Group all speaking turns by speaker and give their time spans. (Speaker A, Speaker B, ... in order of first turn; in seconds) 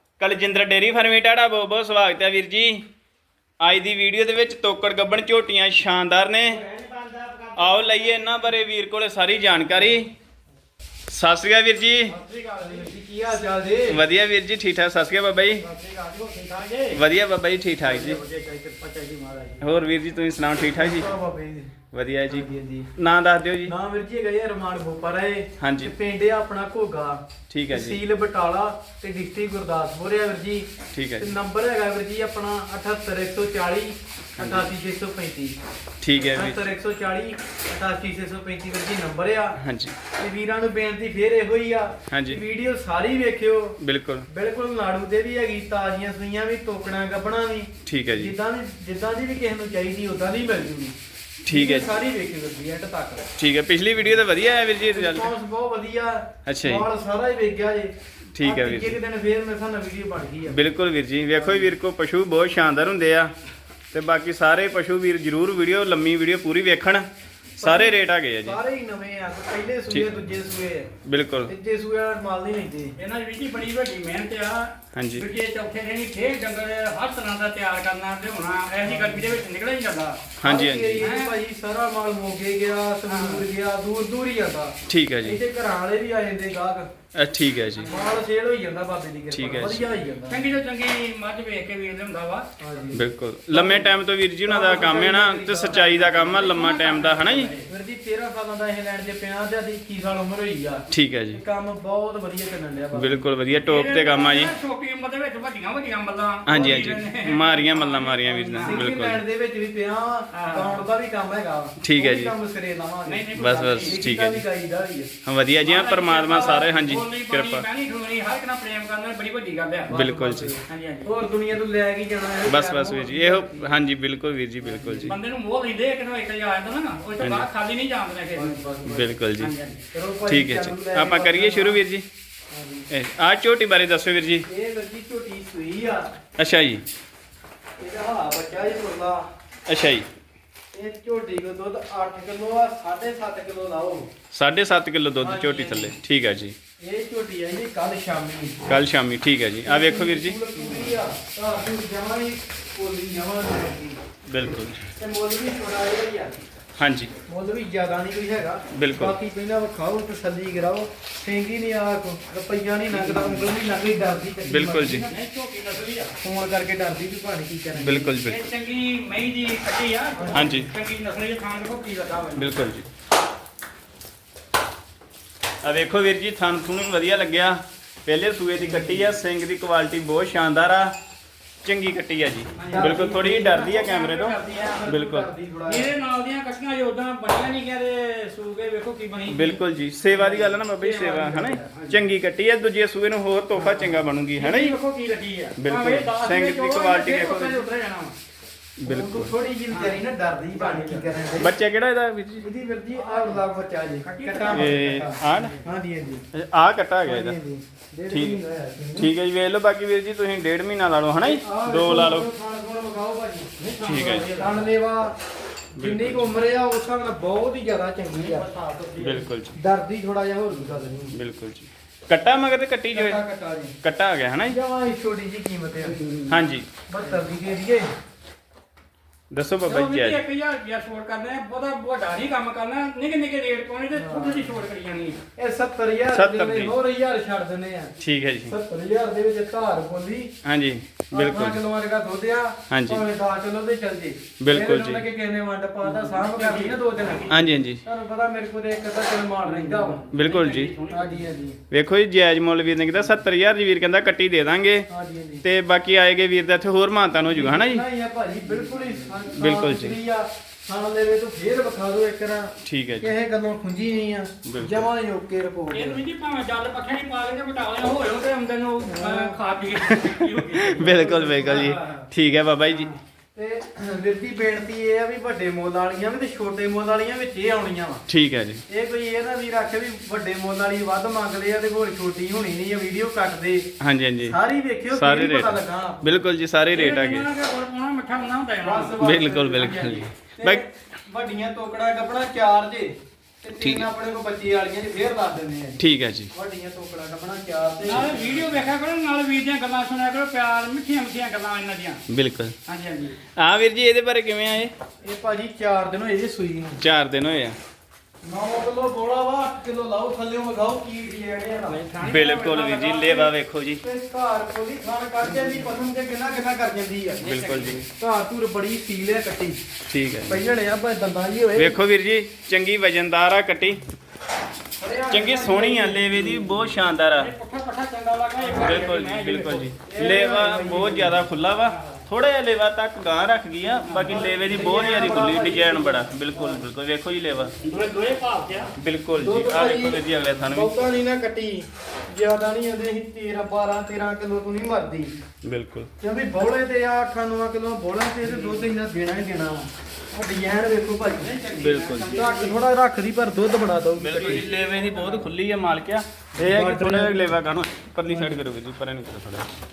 Speaker A: 0.2-2.8, 3.6-6.6, 7.6-10.1, 11.1-12.2, 13.9-15.6, 16.9-18.2, 19.6-21.1, 21.9-23.7, 25.6-25.9, 27.5-28.0, 30.9-31.3, 34.4-34.7, 36.0-36.6, 39.6-40.0, 42.1-42.4, 43.8-44.3, 47.9-48.3, 51.5-51.9, 53.4-55.3, 56.5-56.9, 58.3-59.0, 60.5-63.3, 63.9-67.1, 67.6-68.6, 71.0-71.5, 74.9-75.3, 80.4-81.1, 84.9-85.4, 87.1-87.9, 89.3-89.9, 92.9-97.5, 100.9-101.4, 103.0-104.5, 106.5-109.2, 111.8-112.3, 113.4-114.4, 115.2-117.7, 119.9-120.6, 122.5-125.2, 127.2-127.5, 128.8-129.5, 130.3-132.1, 132.9-134.5, 136.4-136.8, 139.7-140.1, 144.3-146.6, 148.7-150.9, 154.3-154.9, 156.8-157.1, 158.7-159.2, 164.5-165.1, 167.8-168.4, 170.3-170.7, 172.4-172.9, 175.6-180.9, 181.6-185.3, 189.3-194.8, 195.6-197.7, 198.8-199.3, 201.4-202.5, 204.5-205.6, 206.3-207.4, 208.1-208.4, 209.0-212.3, 213.8-214.3, 215.8-216.3, 219.0-219.6, 221.1-223.2, 223.8-224.6, 226.3-226.7, 229.3-230.2, 236.1-236.8, 238.0-238.6, 240.4-241.6, 242.7-243.0, 244.4-245.1, 247.3-247.8, 250.1-250.7, 251.7-254.9, 255.4-257.8, 259.4-260.0, 262.6-263.1, 264.5-264.9, 269.9-272.9, 278.1-278.6, 283.8-284.4, 284.9-287.3, 289.0-290.6, 293.6-293.9, 295.8-296.3, 297.9-298.6, 302.1-302.6, 303.4-304.7, 306.8-307.6, 312.0-313.8, 317.2-317.9, 319.9-320.4, 321.6-323.8, 325.1-327.4, 328.6-337.6, 338.8-340.8, 345.4-345.9, 351.6-352.1, 354.0-359.5
Speaker B: 6.4-8.5, 12.1-12.9, 15.6-17.0, 73.0-80.2, 81.0-81.3, 83.1-83.5, 87.8-88.2, 90.3-92.5, 95.7-97.7, 103.7-108.9, 110.3-110.9, 113.0-114.0, 115.6-120.0, 120.7-121.1, 125.0-128.9, 129.4-129.8, 162.9-163.5, 164.9-166.2, 168.2-172.6, 182.6-184.8, 185.7-192.0, 194.4-198.2, 199.7-200.0, 200.5-201.1, 202.9-203.4, 204.0-205.6, 213.6-214.7, 218.1-219.2, 225.9-226.3, 229.7-235.2, 245.8-247.4, 249.4-251.3, 265.7-272.1, 272.7-273.0, 286.7-290.0, 297.8-302.0, 302.7-303.2, 311.7-313.3, 317.3-317.8, 327.2-329.7, 331.7-332.0, 333.8-335.0, 337.6-338.7, 348.2-348.7, 351.2-352.6, 354.2-355.2
Speaker C: 12.6-14.0, 17.8-19.6, 20.8-21.7, 22.3-22.9, 23.7-30.7, 31.2-35.6, 36.2-39.6, 40.2-43.8, 44.3-51.0, 51.5-53.2, 54.9-60.6, 61.3-61.7, 67.6-70.9, 71.5-73.0, 78.8-79.4, 80.4-86.9, 87.8-90.5, 92.6-96.3, 97.7-103.3, 108.6-115.1, 116.3-116.7, 119.9-123.8, 124.6-125.1, 128.3-129.2, 129.9-131.8, 132.5-132.9, 134.5-136.1, 137.8-139.2, 140.7-144.1, 145.2-146.0, 146.8-148.7, 149.6-154.0, 155.0-156.4, 157.3-165.1, 166.2-168.1, 170.2-170.5, 182.6-183.6, 184.4-185.9, 193.6-193.9, 198.8-201.5, 202.4-206.3, 207.1-209.1, 211.2-213.5, 214.3-215.2, 215.8-218.5, 219.6-221.2, 222.9-223.8, 224.5-226.0, 226.9-227.9, 233.9-234.5, 235.4-240.3, 241.1-250.1, 250.9-251.6, 254.9-255.4, 257.3-266.0, 268.9-269.4, 270.8-271.6, 273.4-278.1, 278.7-283.7, 284.2-286.2, 288.6-295.8, 296.3-298.2, 305.0-306.8, 308.2-311.8, 313.8-319.6, 320.3-321.8, 324.8-326.6, 329.9-331.2, 334.1-336.6, 339.2-345.1, 346.0-351.4, 352.1-354.5, 356.4-357.4, 358.1-358.4